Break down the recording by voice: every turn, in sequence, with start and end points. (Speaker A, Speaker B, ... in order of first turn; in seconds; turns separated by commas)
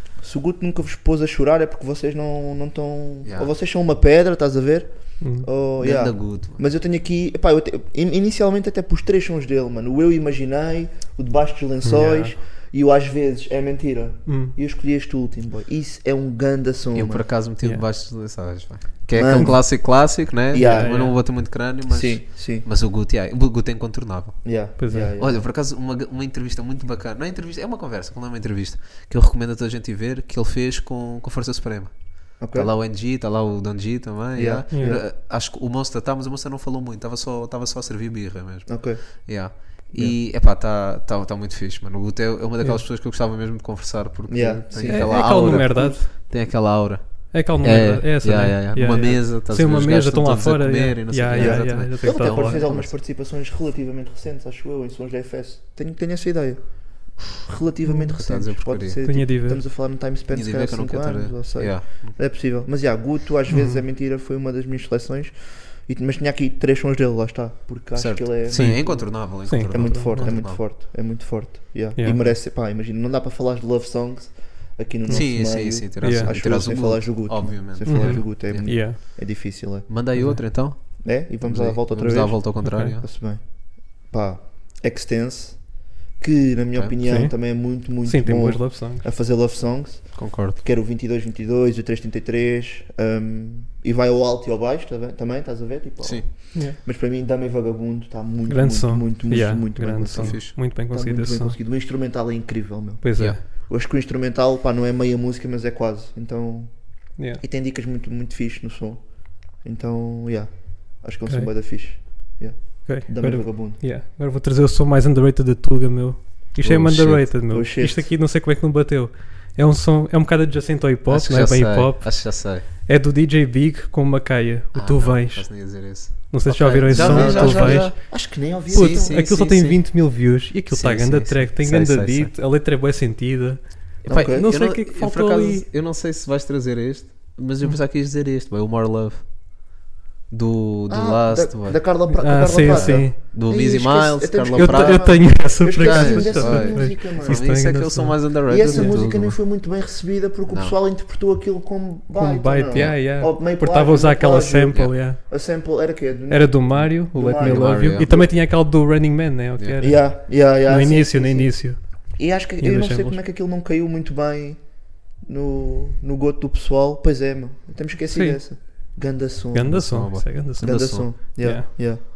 Speaker A: 0.2-17.3, Speaker B: 3.2-3.5, Speaker C: 5.2-5.5, Speaker B: 5.8-6.6, Speaker C: 11.8-12.3, Speaker C: 14.3-14.6, Speaker B: 16.9-52.9, Speaker A: 19.1-21.2, Speaker C: 20.6-21.2, Speaker A: 21.9-22.7, Speaker A: 24.4-25.5, Speaker C: 24.8-25.1, Speaker A: 32.4-32.7, Speaker A: 34.4-35.0, Speaker C: 34.7-35.0, Speaker A: 38.7-39.0, Speaker A: 44.3-46.0, Speaker C: 44.9-46.1, Speaker C: 47.3-52.7, Speaker A: 51.3-79.9, Speaker B: 58.1-59.0, Speaker C: 59.0-59.6, Speaker B: 60.3-62.2, Speaker C: 63.5-63.8, Speaker B: 68.0-70.6, Speaker C: 68.5-70.4, Speaker C: 72.0-72.2, Speaker C: 75.1-75.3, Speaker B: 75.1-79.2, Speaker C: 76.0-76.3, Speaker C: 77.8-79.0, Speaker B: 79.9-83.1, Speaker C: 80.2-80.4, Speaker A: 81.0-113.8, Speaker C: 82.7-82.9, Speaker C: 87.0-89.0, Speaker B: 90.2-90.6, Speaker C: 98.5-101.6, Speaker B: 100.1-100.5, Speaker C: 103.0-103.4, Speaker C: 112.8-135.7, Speaker B: 116.6-117.4, Speaker A: 117.5-118.1, Speaker B: 121.1-122.7, Speaker B: 124.7-132.3, Speaker A: 126.9-129.3, Speaker A: 134.0-134.5, Speaker B: 134.1-139.8, Speaker B: 140.3-149.5, Speaker A: 140.9-147.6, Speaker C: 142.1-143.2, Speaker C: 144.5-149.0, Speaker A: 148.5-158.3, Speaker B: 150.5-150.8, Speaker C: 152.1-155.2, Speaker B: 152.7-153.0, Speaker C: 156.3-162.0, Speaker B: 157.4-158.1, Speaker A: 159.8-172.0, Speaker C: 162.6-163.2, Speaker C: 168.1-168.9, Speaker C: 169.5-171.7, Speaker B: 169.7-171.1